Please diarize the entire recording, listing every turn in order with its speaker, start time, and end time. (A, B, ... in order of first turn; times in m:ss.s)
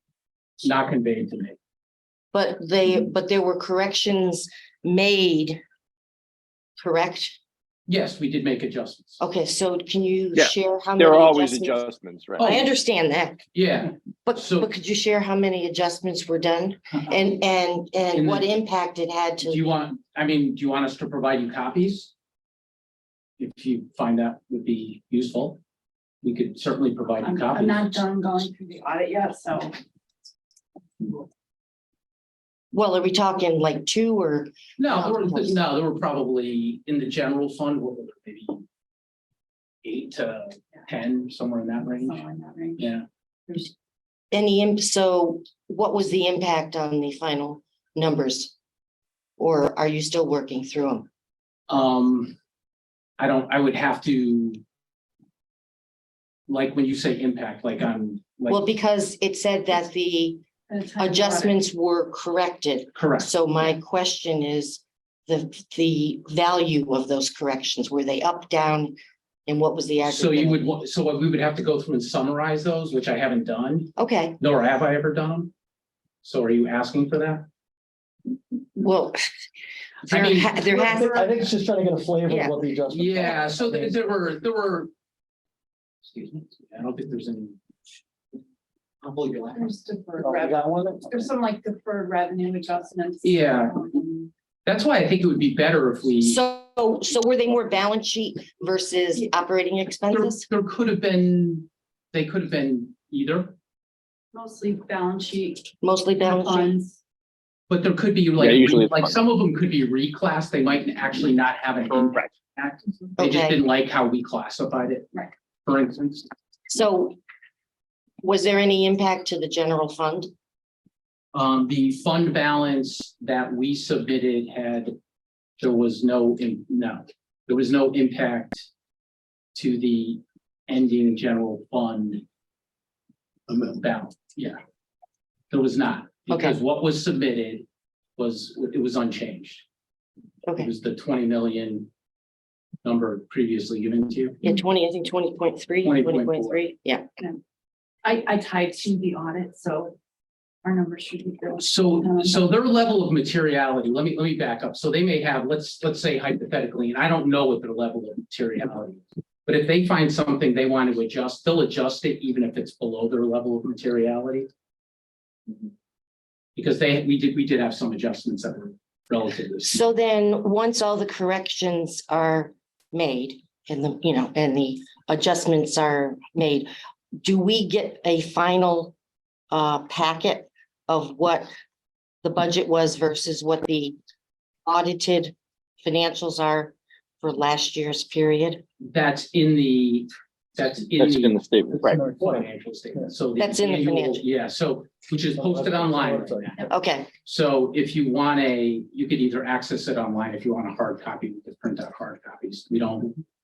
0:00.6-0:01.6 A
0:02.3-0:05.6 B
0:06.8-0:07.4 B
0:07.9-0:09.2 A
0:09.2-0:11.8 B
0:10.4-0:12.5 C
0:12.4-0:12.7 A
0:12.4-0:13.4 B
0:13.5-0:14.7 A
0:14.3-0:19.7 B
0:18.1-0:18.5 A
0:19.4-0:22.1 A
0:23.4-0:25.6 A
0:26.2-0:28.0 A
0:27.2-0:29.8 D
0:32.7-0:35.6 B
0:34.8-0:38.6 A
0:39.8-0:42.2 A
0:42.0-0:42.9 D
0:42.8-0:43.0 A
0:44.3-0:48.5 B
0:49.4-0:51.1 B
0:51.7-0:52.4 A
0:53.2-0:54.6 A
0:56.5-0:58.6 A
0:58.5-1:00.4 B
1:00.7-1:01.6 D
1:01.0-1:09.0 B
1:02.9-1:03.3 A
1:09.5-1:10.7 B
1:10.1-1:15.5 A
1:14.0-1:14.4 B
1:16.2-1:17.5 A
1:18.8-1:19.2 B
1:20.1-1:21.2 B
1:20.1-1:21.5 A
1:20.7-1:24.0 E
1:22.3-1:22.6 B
1:22.9-1:24.9 A
1:26.1-1:27.6 A
1:29.0-1:29.7 A
1:29.5-1:34.3 D
1:30.2-1:31.2 E
1:33.2-1:33.8 A
1:34.7-1:36.4 A
1:36.2-1:40.4 B
1:40.1-1:43.6 A
1:44.3-1:47.0 D
1:45.8-1:46.7 B
1:47.7-1:55.1 A
1:48.4-1:49.2 C
1:53.2-1:53.6 B
1:55.6-1:56.3 A
1:56.7-1:57.2 B
1:58.2-2:00.3 B
2:01.3-2:05.0 A
2:05.6-2:08.7 A
2:09.6-2:12.2 A
2:13.5-2:14.6 A
2:15.5-2:17.7 A
2:16.3-2:16.6 B
2:18.2-2:19.6 A
2:20.6-2:21.9 A
2:22.8-2:24.4 A
2:24.4-2:27.1 B
2:25.8-2:26.6 A
2:28.0-2:30.0 D
2:30.6-2:32.5 D
2:31.6-2:44.5 A
2:46.6-2:49.8 A
2:49.7-2:56.7 B
2:57.2-2:58.9 B
2:59.5-3:01.5 B
3:02.2-3:04.0 B
3:04.7-3:08.6 B
3:08.8-3:11.5 A
3:11.0-3:12.0 C
3:11.8-3:13.1 E
3:12.0-3:16.7 A
3:13.4-3:14.2 B
3:15.4-3:16.6 E
3:16.7-3:17.1 B
3:17.2-3:23.2 A